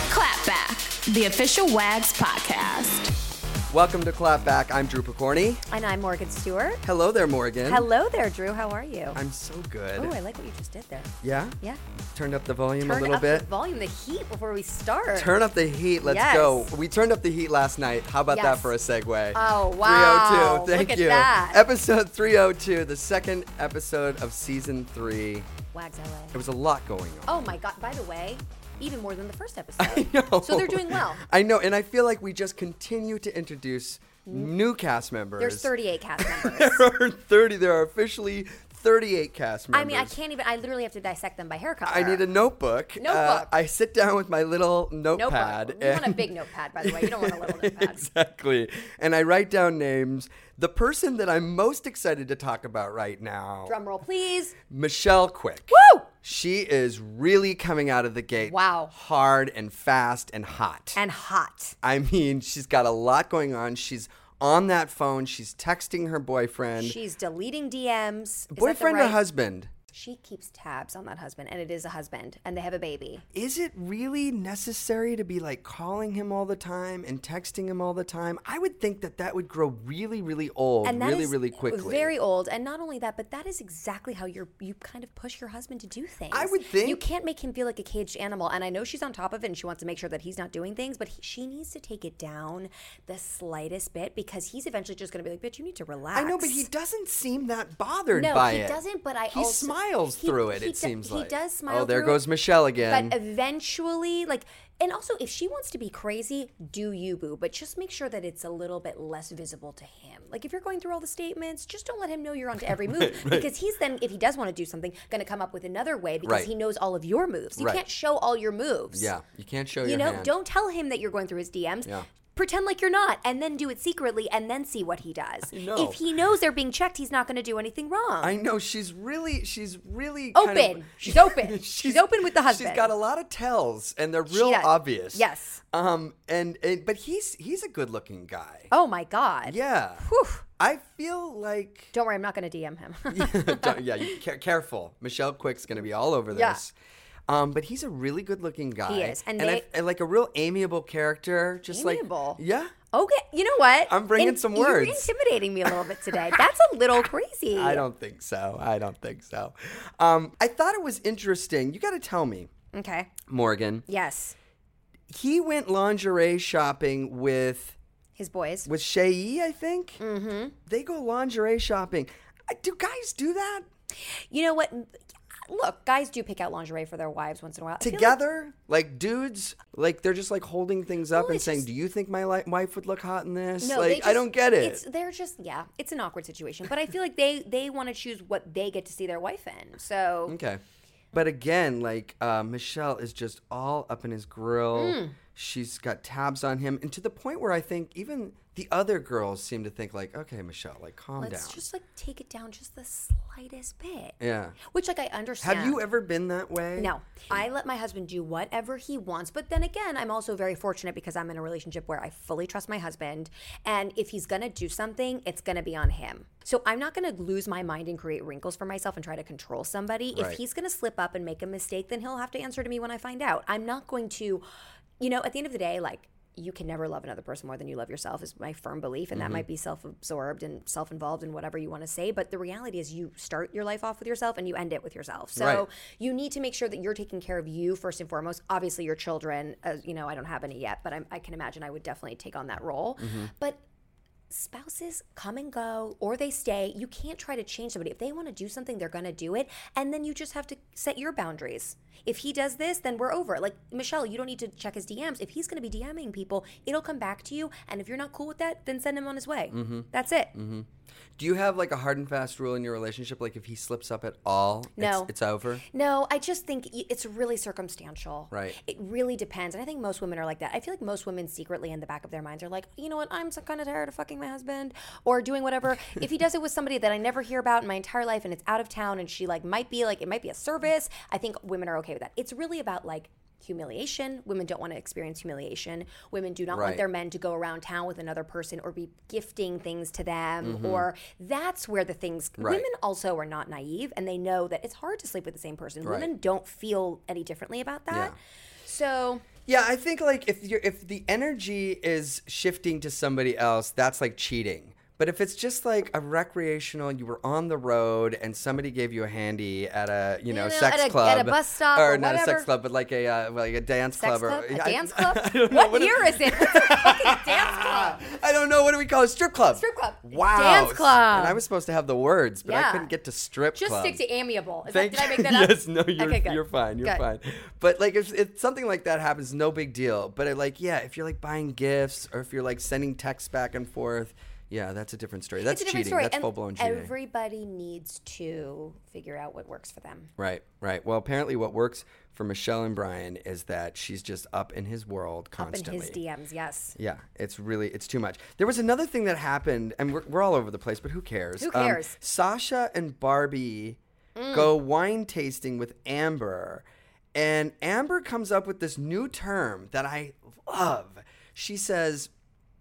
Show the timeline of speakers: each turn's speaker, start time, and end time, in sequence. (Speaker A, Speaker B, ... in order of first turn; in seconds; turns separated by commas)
Speaker A: 0.1-3.1, Speaker B: 3.7-5.6, Speaker C: 5.7-6.8, Speaker B: 6.8-7.9, Speaker C: 7.7-9.2, Speaker B: 9.1-10.2, Speaker C: 9.9-11.8, Speaker B: 11.2-11.6, Speaker B: 12.1-13.5, Speaker C: 12.8-15.3, Speaker B: 15.1-25.5, Speaker C: 16.0-16.7, Speaker C: 18.3-18.7, Speaker C: 19.3-21.6, Speaker C: 25.7-26.4, Speaker B: 26.3-27.5, Speaker C: 27.3-31.2, Speaker B: 29.8-40.1, Speaker C: 34.2-34.5, Speaker C: 35.4-36.8, Speaker C: 39.7-42.2, Speaker B: 41.8-53.8, Speaker C: 43.0-43.5, Speaker C: 45.1-48.0, Speaker C: 53.7-54.5, Speaker B: 54.6-61.0, Speaker C: 55.7-56.1, Speaker C: 58.4-58.9, Speaker C: 60.9-61.8, Speaker B: 61.8-67.0, Speaker C: 66.8-69.2, Speaker B: 68.5-69.7, Speaker C: 69.9-73.2, Speaker B: 73.3-82.1, Speaker C: 80.8-96.7, Speaker B: 86.3-87.0, Speaker B: 96.1-98.8, Speaker C: 98.1-102.2, Speaker B: 99.3-103.2, Speaker C: 102.8-119.1, Speaker B: 112.6-113.5, Speaker B: 116.2-116.5, Speaker B: 117.6-117.8, Speaker B: 118.9-120.3, Speaker C: 119.8-128.4, Speaker B: 125.5-126.0, Speaker B: 128.2-138.7, Speaker C: 130.3-132.9, Speaker C: 134.3-135.6, Speaker C: 138.7-140.4, Speaker B: 139.4-140.0, Speaker B: 140.6-141.9, Speaker C: 141.9-144.1, Speaker B: 143.1-146.7, Speaker C: 146.3-146.6, Speaker B: 147.3-152.7, Speaker C: 148.8-149.7, Speaker C: 151.7-157.8, Speaker B: 153.9-155.1, Speaker B: 157.5-162.5, Speaker C: 162.7-163.1, Speaker B: 163.3-163.8, Speaker C: 163.9-164.3, Speaker B: 165.1-167.8, Speaker C: 168.2-168.7, Speaker B: 168.7-170.0, Speaker C: 170.0-170.6, Speaker B: 170.7-173.7, Speaker C: 174.0-174.9, Speaker C: 175.5-178.2, Speaker B: 177.8-184.8, Speaker C: 181.1-181.6, Speaker C: 183.6-190.4, Speaker B: 190.3-190.6, Speaker B: 191.1-201.6, Speaker C: 194.7-195.2, Speaker C: 201.2-205.8, Speaker B: 204.2-204.6, Speaker B: 205.4-206.9, Speaker C: 206.8-224.4, Speaker B: 220.1-220.4, Speaker C: 225.0-243.6, Speaker B: 229.1-229.4, Speaker B: 235.3-235.7, Speaker B: 243.0-243.3, Speaker C: 244.3-260.3, Speaker B: 259.5-265.6, Speaker C: 264.8-265.1, Speaker C: 265.6-298.1, Speaker B: 268.3-268.6, Speaker B: 286.5-286.8, Speaker B: 290.4-290.9, Speaker B: 292.4-292.6, Speaker B: 295.8-296.1, Speaker C: 298.6-299.2, Speaker B: 299.5-324.0, Speaker C: 310.3-312.5, Speaker C: 313.9-318.1, Speaker C: 319.5-321.4, Speaker C: 322.4-322.9, Speaker C: 323.6-327.0, Speaker B: 324.7-336.9, Speaker C: 335.4-340.1, Speaker B: 340.2-346.0, Speaker C: 345.4-346.8, Speaker B: 346.8-353.8, Speaker C: 351.4-352.0, Speaker C: 354.1-354.5, Speaker B: 354.3-362.1